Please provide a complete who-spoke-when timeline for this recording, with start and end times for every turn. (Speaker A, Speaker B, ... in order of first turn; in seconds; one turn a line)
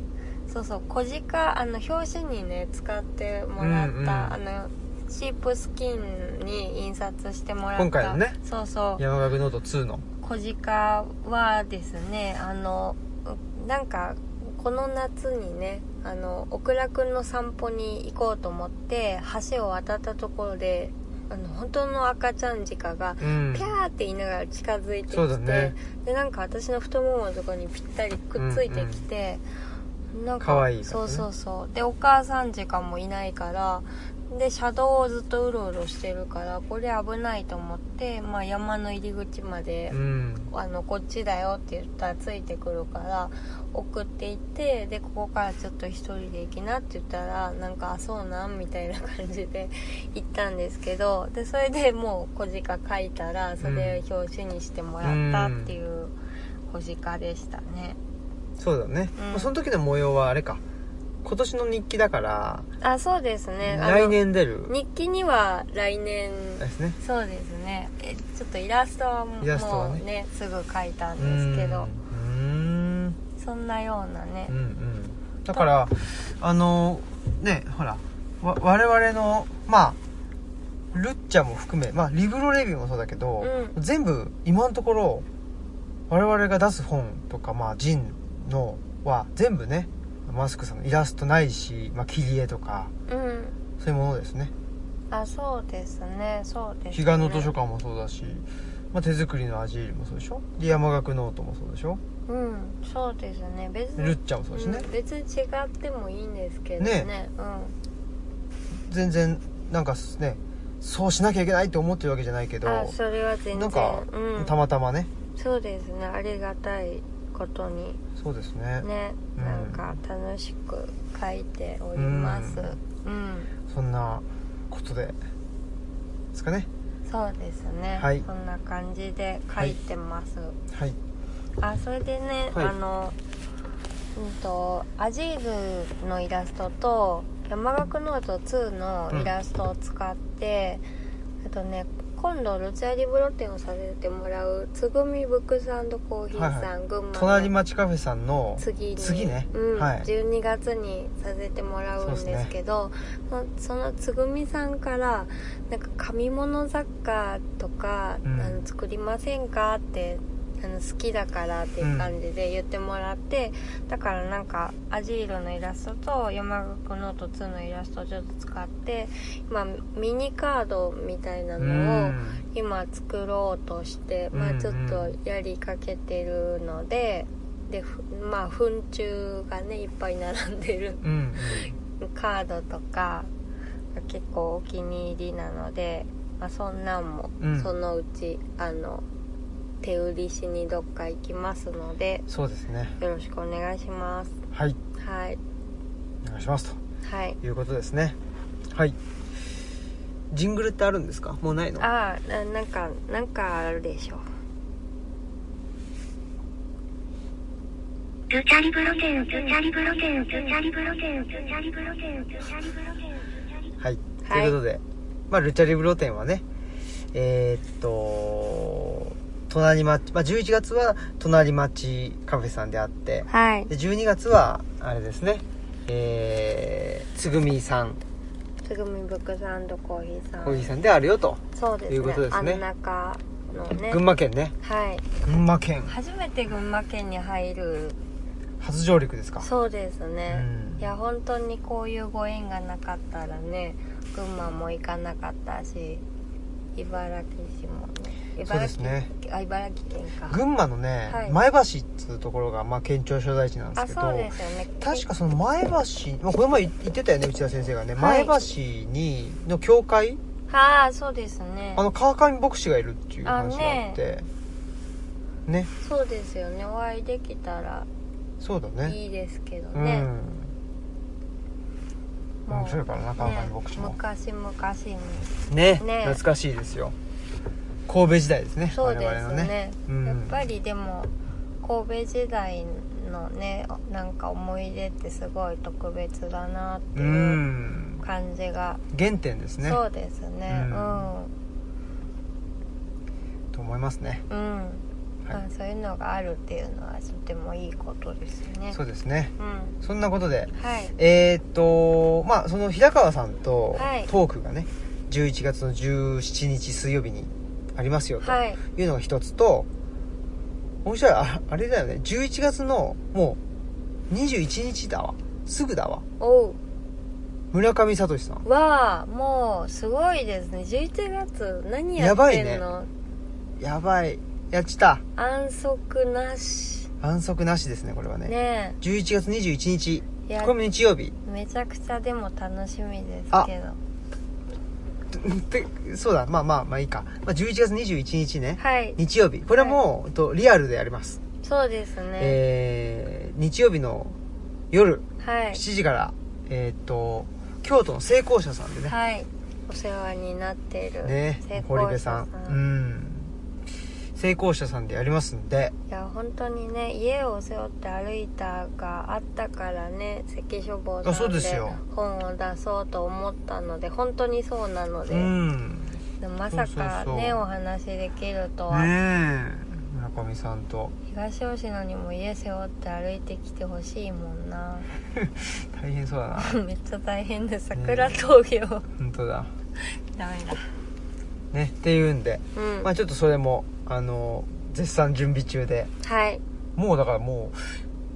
Speaker A: 0.5-9.0
Speaker B: 3.6-4.4
Speaker B: 7.8-8.4
Speaker B: 9.0-10.0
Speaker A: 10.2-29.4
Speaker B: 23.2-23.7
Speaker B: 25.1-25.7
Speaker B: 28.4-29.0
Speaker A: 30.1-40.0
Speaker B: 30.4-31.2
Speaker B: 39.9-40.5
Speaker A: 40.5-56.1
Speaker B: 53.6-54.0
Speaker B: 55.0-55.7
Speaker A: 56.7-58.0
Speaker B: 58.6-60.6
Speaker A: 59.1-59.5
Speaker B: 61.2-62.6
Speaker A: 62.8-71.9
Speaker B: 63.6-64.7
Speaker B: 66.6-67.0
Speaker B: 69.4-70.0
Speaker B: 71.2-73.2
Speaker A: 73.4-74.5
Speaker B: 74.5-80.0
Speaker B: 80.9-85.2
Speaker A: 83.4-83.8
Speaker B: 86.1-92.9
Speaker A: 93.1-93.5
Speaker B: 93.8-94.5
Speaker A: 95.1-97.5
Speaker B: 96.9-102.0
Speaker A: 102.3-107.7
Speaker B: 104.0-104.9
Speaker B: 106.8-107.1
Speaker B: 108.8-113.0
Speaker A: 112.6-114.5
Speaker B: 113.5-115.1
Speaker A: 115.3-118.0
Speaker B: 118.2-120.0
Speaker A: 118.8-123.5
Speaker B: 121.9-122.7
Speaker B: 123.7-125.2
Speaker B: 126.3-126.7
Speaker A: 127.0-130.6
Speaker B: 128.0-128.2
Speaker B: 130.7-131.0
Speaker A: 131.6-133.2
Speaker A: 134.1-140.8
Speaker A: 141.4-147.5
Speaker B: 146.3-150.1
Speaker A: 148.6-183.3
Speaker B: 152.0-152.5
Speaker B: 158.2-158.6
Speaker B: 161.8-162.1
Speaker B: 171.6-172.4
Speaker B: 174.3-175.1
Speaker B: 181.0-181.7
Speaker A: 183.9-189.0
Speaker B: 187.4-187.7
Speaker A: 189.8-192.2
Speaker B: 192.3-192.9
Speaker A: 193.0-194.4
Speaker B: 194.5-194.8
Speaker A: 195.0-195.4
Speaker B: 196.2-196.8
Speaker A: 197.0-197.4
Speaker B: 197.4-198.2
Speaker B: 198.7-198.9
Speaker B: 200.3-201.8
Speaker A: 201.8-204.2
Speaker C: 208.3-213.2
Speaker B: 213.8-216.4
Speaker A: 214.2-214.6
Speaker B: 217.1-228.0
Speaker A: 223.3-223.7
Speaker A: 228.6-230.7
Speaker B: 230.4-232.6
Speaker A: 231.5-234.0
Speaker B: 233.9-234.5
Speaker A: 234.6-235.1
Speaker B: 235.2-235.9
Speaker A: 235.8-238.0
Speaker B: 238.6-239.5
Speaker A: 239.4-246.0
Speaker B: 240.3-240.9
Speaker A: 246.8-250.4
Speaker B: 248.4-249.1
Speaker B: 250.3-260.2
Speaker A: 251.1-251.4
Speaker A: 253.8-255.0
Speaker A: 258.0-258.5
Speaker A: 260.5-261.8
Speaker B: 261.8-264.3
Speaker A: 263.2-264.0
Speaker A: 265.8-267.9
Speaker B: 268.4-269.0
Speaker A: 268.9-270.1
Speaker B: 269.7-270.5
Speaker A: 272.4-276.2
Speaker B: 272.5-273.9
Speaker B: 275.5-276.9
Speaker B: 277.9-280.4
Speaker A: 278.7-281.1
Speaker A: 281.6-287.4
Speaker B: 286.9-288.0
Speaker A: 288.0-288.8
Speaker B: 288.9-289.8
Speaker A: 289.6-291.3
Speaker B: 290.5-291.1
Speaker B: 293.5-294.2
Speaker A: 294.3-298.8
Speaker B: 298.7-309.7
Speaker A: 299.4-299.8
Speaker A: 300.6-300.9
Speaker A: 303.7-304.1
Speaker A: 308.2-308.6
Speaker B: 310.8-313.4
Speaker B: 314.1-316.0
Speaker A: 316.2-316.6
Speaker B: 317.5-318.4
Speaker A: 318.4-322.9
Speaker B: 322.0-322.6
Speaker B: 323.6-325.0
Speaker A: 325.1-326.9
Speaker B: 327.0-331.1
Speaker A: 328.2-328.8
Speaker A: 330.3-330.5
Speaker A: 331.2-333.8
Speaker B: 335.1-341.2
Speaker A: 338.6-339.0
Speaker A: 339.5-339.8
Speaker A: 341.4-342.4
Speaker B: 342.2-344.2
Speaker B: 344.7-348.9
Speaker A: 345.2-345.6
Speaker A: 348.9-352.6
Speaker B: 351.0-353.3
Speaker B: 354.1-355.7
Speaker A: 355.9-365.3
Speaker B: 361.0-361.8
Speaker B: 365.1-366.0
Speaker A: 366.2-368.9
Speaker B: 366.5-367.4
Speaker B: 368.7-370.9
Speaker A: 371.1-374.9
Speaker B: 375.1-376.6
Speaker A: 376.4-378.9
Speaker B: 377.7-378.2
Speaker B: 379.0-379.5
Speaker A: 379.8-380.7
Speaker B: 381.5-385.9
Speaker A: 382.5-382.9
Speaker A: 386.0-386.4
Speaker B: 386.8-387.8